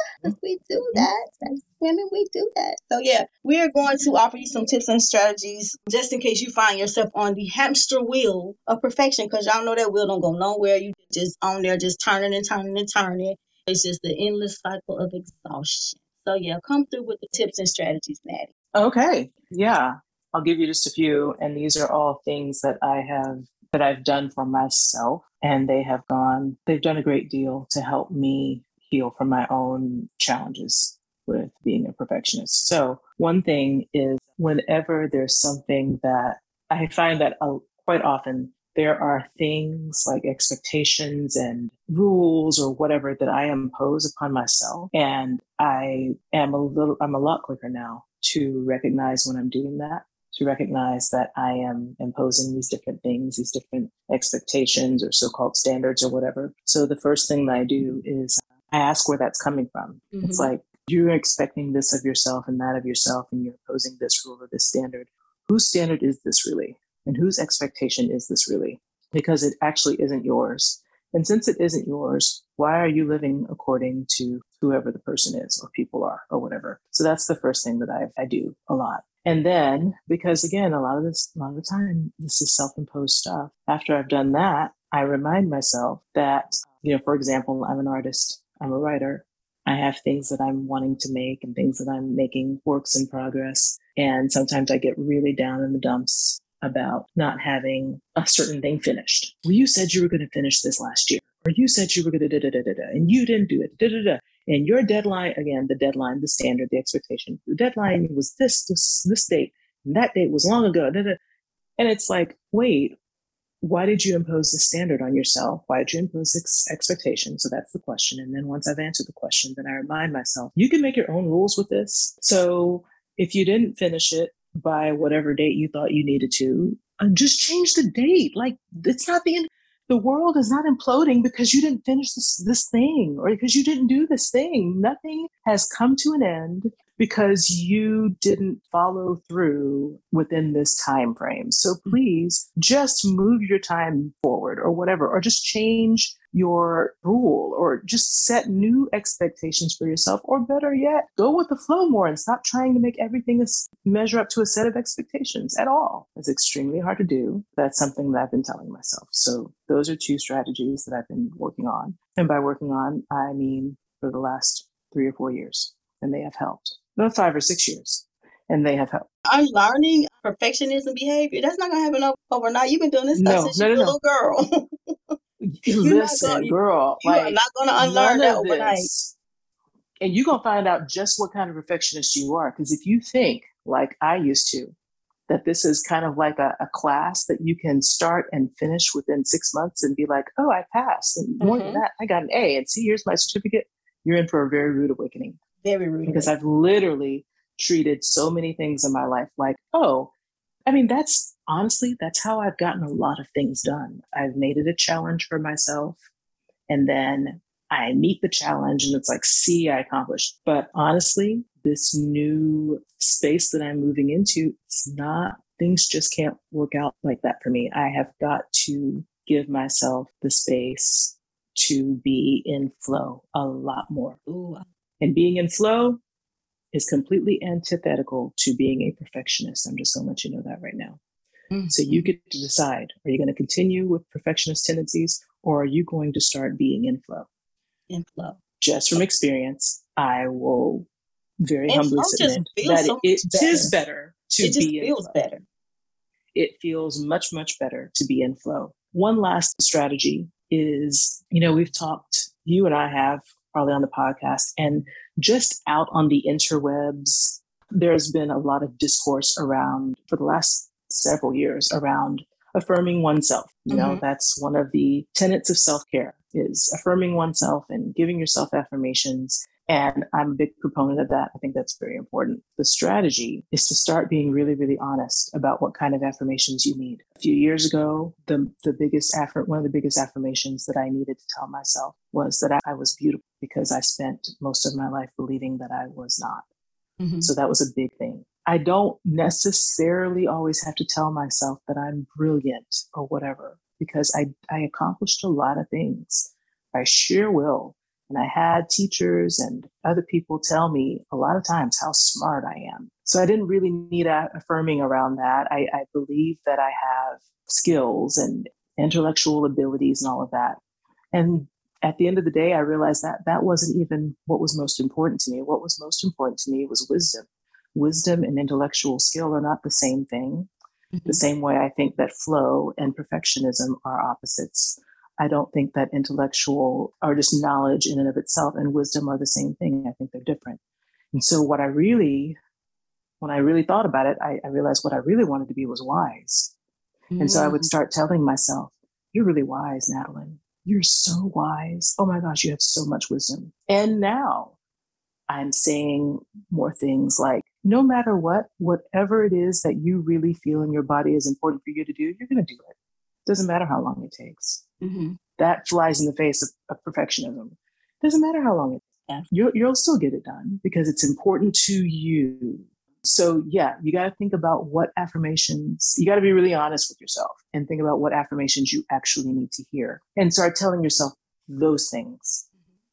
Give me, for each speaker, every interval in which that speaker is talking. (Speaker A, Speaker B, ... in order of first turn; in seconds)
Speaker A: 0.2-18.5, 60.1-60.5, 169.3-174.6, 175.7-178.9, 191.4-191.8, 195.6-196.3, 224.3-224.7, 231.5-232.1, 237.9-238.4, 241.7-243.8, 244.4-245.4, 263.7-264.0, 287.0-287.3, 320.9-321.2, 337.1-337.7, 354.8-355.2
Speaker B: 18.8-111.2, 111.8-113.0, 113.6-169.1, 173.1-174.0, 175.4-179.1, 180.0-184.7, 185.3-195.4, 196.1-200.1, 200.7-206.0, 206.7-224.2, 225.0-226.0, 226.7-231.0, 231.7-237.3, 238.6-240.9, 241.4-245.1, 246.3-286.4, 287.2-310.6, 311.1-320.5, 321.1-330.6, 331.1-332.4, 333.2-336.5, 337.2-344.6, 345.3-352.7, 353.3-354.6, 355.4-372.4